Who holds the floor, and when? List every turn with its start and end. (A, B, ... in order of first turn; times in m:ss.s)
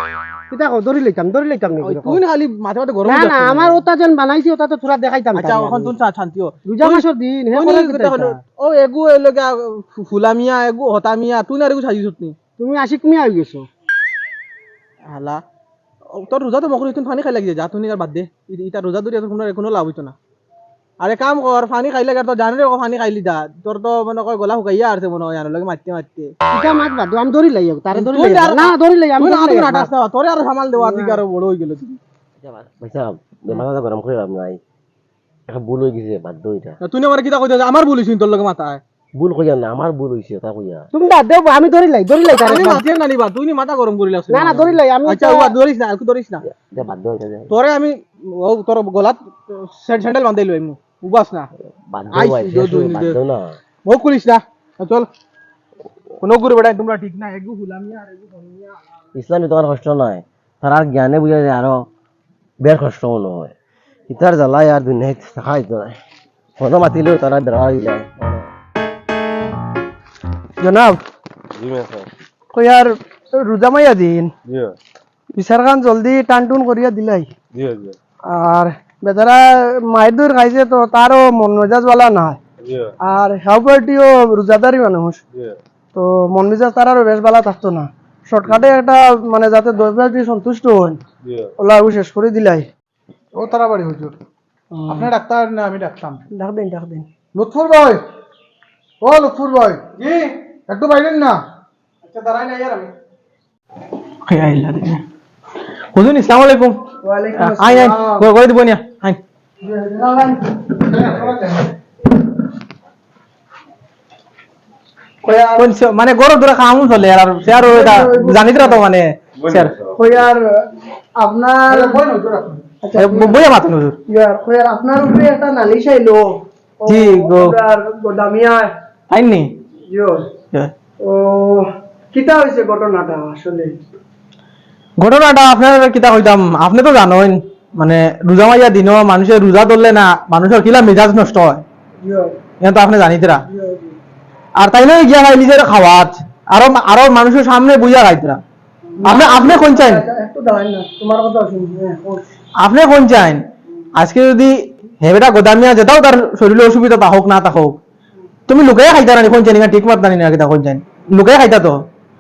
0:00.5-0:02.2 A
0:01.8-0:03.8 B
0:03.0-0:05.9 A
0:05.4-0:12.4 B
0:06.7-0:08.4 A
0:12.6-0:13.7 A
0:15.1-0:15.4 B
0:16.1-0:20.2 B
0:21.0-0:26.3 B
0:26.5-0:29.9 A
0:27.9-0:32.0 B
0:32.4-0:34.6 C
0:35.5-0:36.8 C
0:36.8-0:38.8 B
0:39.2-0:40.9 C
0:40.9-0:42.8 A
0:42.4-0:46.4 B
0:44.3-0:45.6 A
0:46.4-0:47.5 C
0:47.5-0:51.5 B
0:51.9-0:53.6 C
0:52.1-0:53.2 B
0:53.9-0:55.1 B
0:56.2-0:58.7 B
0:59.1-1:01.9 C
1:02.6-1:03.5 C
1:04.1-1:06.0 C
1:06.6-1:08.4 C
1:10.6-1:11.0 D
1:12.5-1:14.3 D
1:15.4-1:17.3 D
1:18.3-1:22.4 D
1:23.1-1:25.2 D
1:25.9-1:31.0 D
1:31.6-1:32.7 D
1:33.4-1:34.2 E
1:34.7-1:35.1 D
1:34.9-1:36.2 E
1:36.3-1:37.1 D
1:37.4-1:38.0 E
1:39.0-1:39.8 E
1:40.0-1:40.3 B
1:40.7-1:41.4 E
1:42.0-1:42.9 B
1:44.3-1:45.0 B
1:45.9-1:46.8 B
1:47.0-1:48.3 D
1:47.4-1:49.2 B
1:49.6-1:51.3 D
1:50.9-1:51.7 E
1:55.2-1:55.7 D
1:55.6-1:59.8 B
1:57.6-1:58.8 D
2:00.0-2:00.4 D
2:01.2-2:02.0 D
2:01.7-2:02.6 E
2:02.8-2:06.3 D
2:02.9-2:04.0 B
2:06.8-2:08.7 D
2:06.9-2:07.6 B
2:09.1-2:09.5 B
2:09.9-2:10.2 D
2:11.0-2:13.8 D
2:15.0-2:21.6 B
2:22.0-2:22.3 D
2:22.6-2:23.4 B
2:23.4-2:24.0 D
2:24.6-2:28.4 B
2:29.0-2:32.3 D
2:29.0-2:30.0 B
2:32.6-2:33.4 B
2:34.0-2:37.8 B
2:38.5-2:41.8 B